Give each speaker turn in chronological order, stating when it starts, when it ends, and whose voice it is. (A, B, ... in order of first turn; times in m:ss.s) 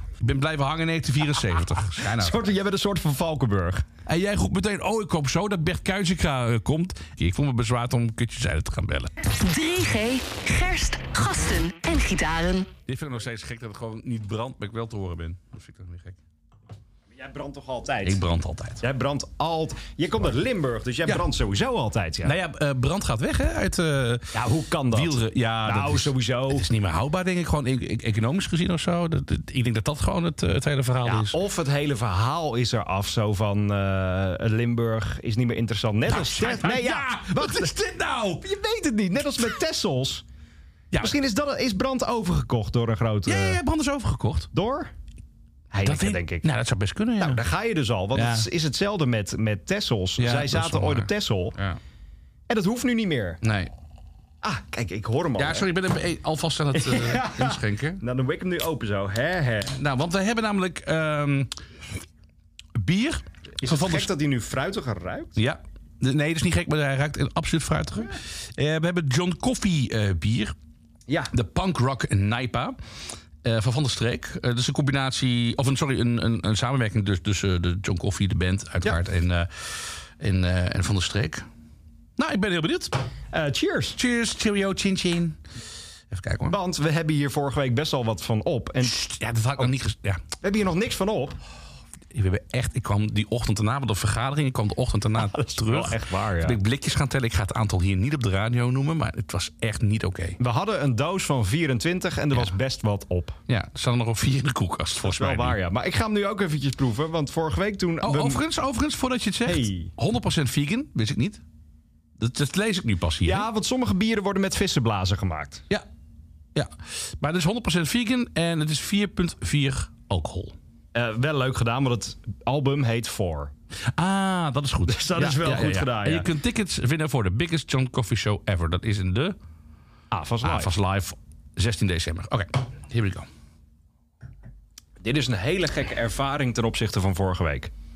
0:00.2-0:02.4 A
0:02.0-0:03.8 B
0:04.0-0:09.1 A
0:09.3-0:12.7 C
0:12.9-0:16.2 A
0:17.1-0:18.2 B
0:18.0-0:18.8 A
0:18.8-0:22.3 B
0:22.2-0:24.3 A
0:24.3-0:26.7 B
0:24.9-0:31.4 A
0:31.0-0:37.7 B
0:36.1-0:38.4 A
0:38.4-0:40.2 B
0:41.0-0:43.6 B
0:43.2-0:44.5 A
0:44.5-0:44.9 B
0:45.7-0:46.5 B
0:45.8-0:47.4 A
0:47.2-0:51.6 B
0:48.1-0:48.5 A
0:50.2-0:51.8 A
0:52.5-0:53.4 B
0:53.4-0:53.7 A
0:54.4-0:55.7 B
0:55.4-0:58.0 A
0:56.7-0:59.7 B
0:59.6-1:01.5 A
1:02.8-1:04.1 A
1:03.6-1:05.4 B
1:05.4-1:10.5 A
1:11.3-1:12.8 A
1:13.4-1:21.4 A
1:22.2-1:22.9 A
1:23.3-1:24.0 B
1:24.0-1:25.4 A
1:26.1-1:26.6 A
1:26.5-1:29.0 B
1:28.8-1:30.2 A
1:30.4-1:31.4 B
1:32.1-1:40.4 A
1:35.2-1:36.6 B
1:40.4-1:43.4 B
1:43.5-1:45.6 A
1:45.0-1:48.4 B
1:48.0-1:51.4 A
1:49.4-1:49.9 B
1:52.2-1:53.4 A
1:53.2-1:55.6 B
1:56.5-2:00.5 A
2:00.9-2:03.5 B
2:04.0-2:09.4 A
2:04.9-2:06.3 B
2:10.1-2:10.7 B
2:10.4-2:13.3 A
2:15.0-2:17.7 B